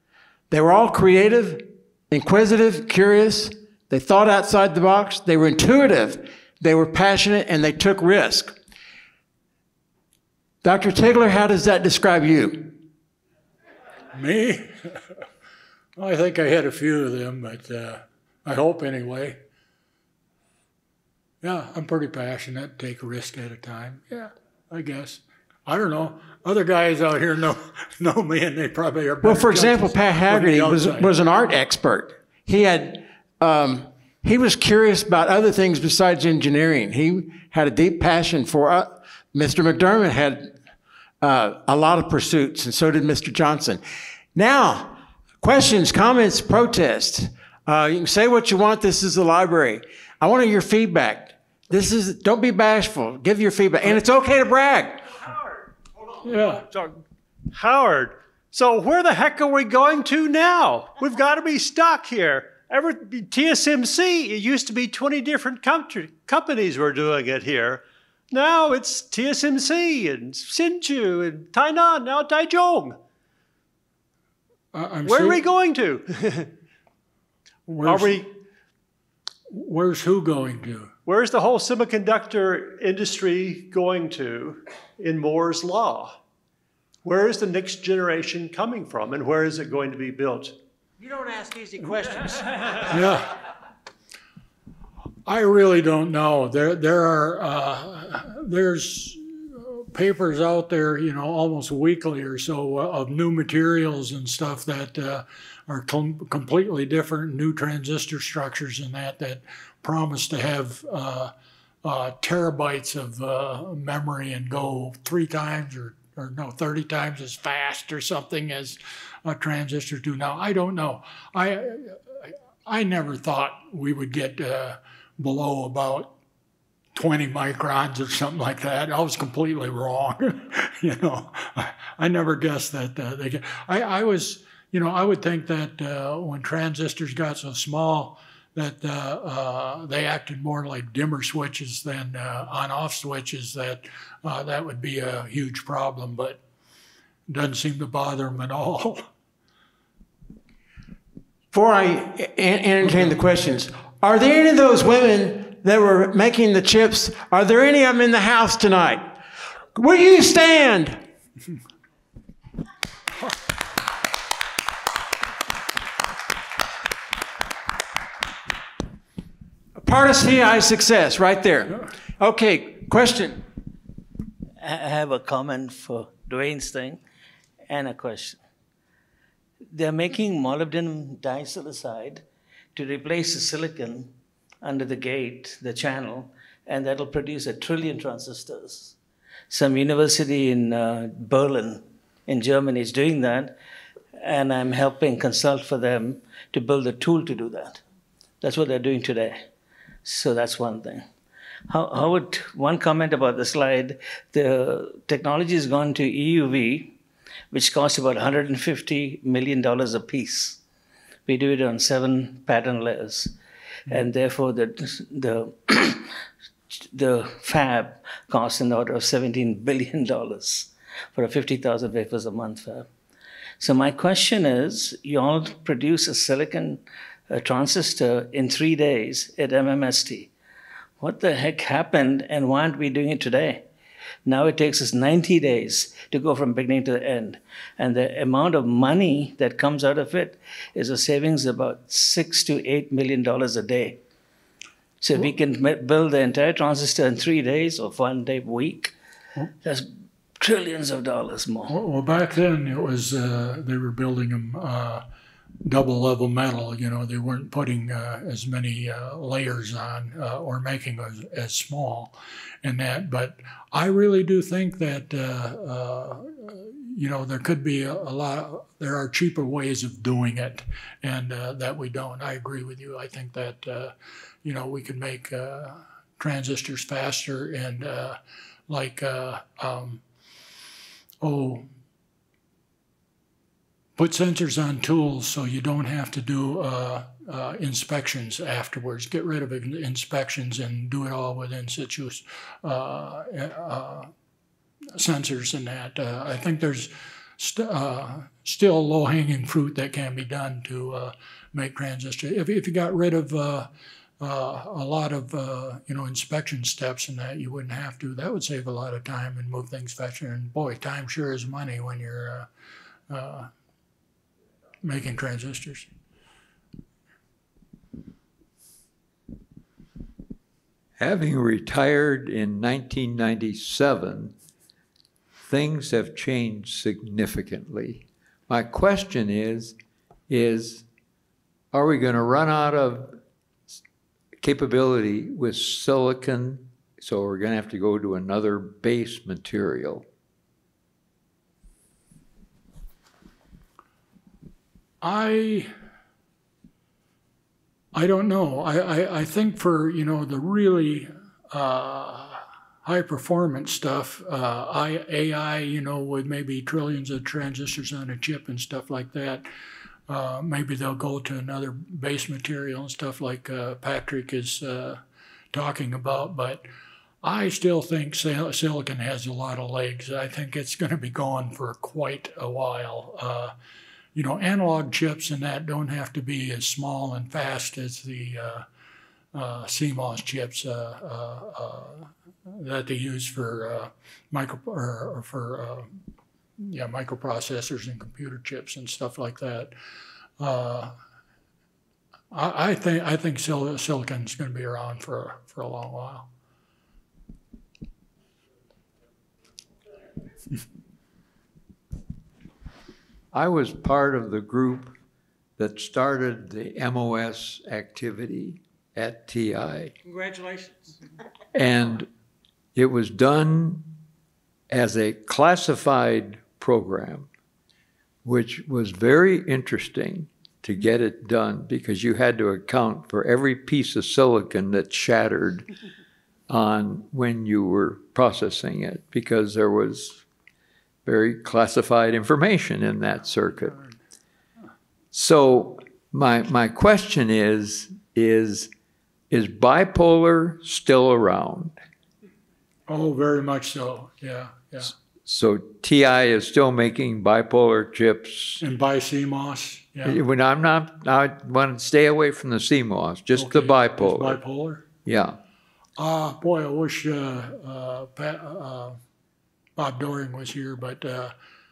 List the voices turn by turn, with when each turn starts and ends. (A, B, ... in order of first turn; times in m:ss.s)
0:00.5-0:08.6 A
0:10.6-0:12.8 A
0:14.1-0:15.0 B
0:16.0-0:19.4 B
0:21.4-0:31.1 B
0:29.2-0:40.6 A
0:41.2-0:43.8 A
0:44.3-0:55.2 A
0:56.2-1:13.0 C
0:56.2-0:56.7 B
1:14.7-1:15.4 B
1:15.0-1:16.5 C
1:17.7-1:18.2 B
1:17.8-1:18.3 C
1:19.5-1:20.9 B
1:21.0-1:26.2 C
1:27.0-1:30.6 C
1:31.0-1:32.9 A
1:32.3-1:32.8 C
1:32.8-1:33.3 B
1:35.2-1:51.3 B
1:51.8-2:06.1 B
2:06.9-2:26.4 B
2:27.3-2:29.0 B
2:31.5-2:39.2 A
2:39.7-2:41.0 A
2:49.8-2:53.4 A
2:54.6-2:57.0 D
2:57.6-2:58.4 D
2:59.7-3:09.0 D
3:09.5-3:13.5 D
3:14.2-3:17.8 D
3:18.4-3:19.5 D
3:20.0-3:21.1 D
3:21.7-3:27.0 D
3:27.5-3:30.6 D
3:31.2-3:33.3 D
3:33.9-3:36.1 D
3:36.7-3:42.9 D
3:43.6-3:50.3 D
3:51.0-3:53.6 D
3:54.2-4:04.0 D
4:05.0-4:08.9 D
4:09.6-4:11.7 D
4:11.7-4:15.0 B
4:15.6-4:33.9 B
4:34.4-4:40.0 B
4:41.2-4:41.7 B
4:44.0-4:54.1 B
4:55.0-5:12.5 B
5:13.1-5:13.5 B
5:14.8-5:15.9 B
5:21.0-5:24.3 E
5:25.4-5:29.8 E
5:30.3-5:30.8 E
5:31.7-5:33.2 E
5:34.4-5:40.1 E
5:45.0-5:45.7 B
5:47.9-5:59.5 B
6:00.1-6:05.0 B
6:05.5-6:06.7 B
6:07.2-6:13.5 B
6:14.1-6:18.6 B
6:19.3-6:26.0 B
6:26.6-6:29.7 B
6:30.4-6:31.0 B
6:32.3-6:36.3 B
6:43.3-6:44.9 E
6:45.6-6:49.9 E
6:50.0-6:50.9 A
6:51.5-6:52.1 E
6:52.7-6:53.9 E
6:54.7-6:57.3 E
6:58.2-7:05.7 E
7:06.5-7:10.2 E
7:11.0-7:13.8 E
7:15.1-7:18.7 E
7:19.3-7:21.8 E
7:22.9-7:24.9 B
7:25.2-7:28.6 E
7:28.6-7:30.2 B
7:30.0-7:34.4 E
7:33.3-7:34.8 B
7:35.0-7:35.4 E
7:36.0-7:39.0 B
7:39.8-7:41.3 B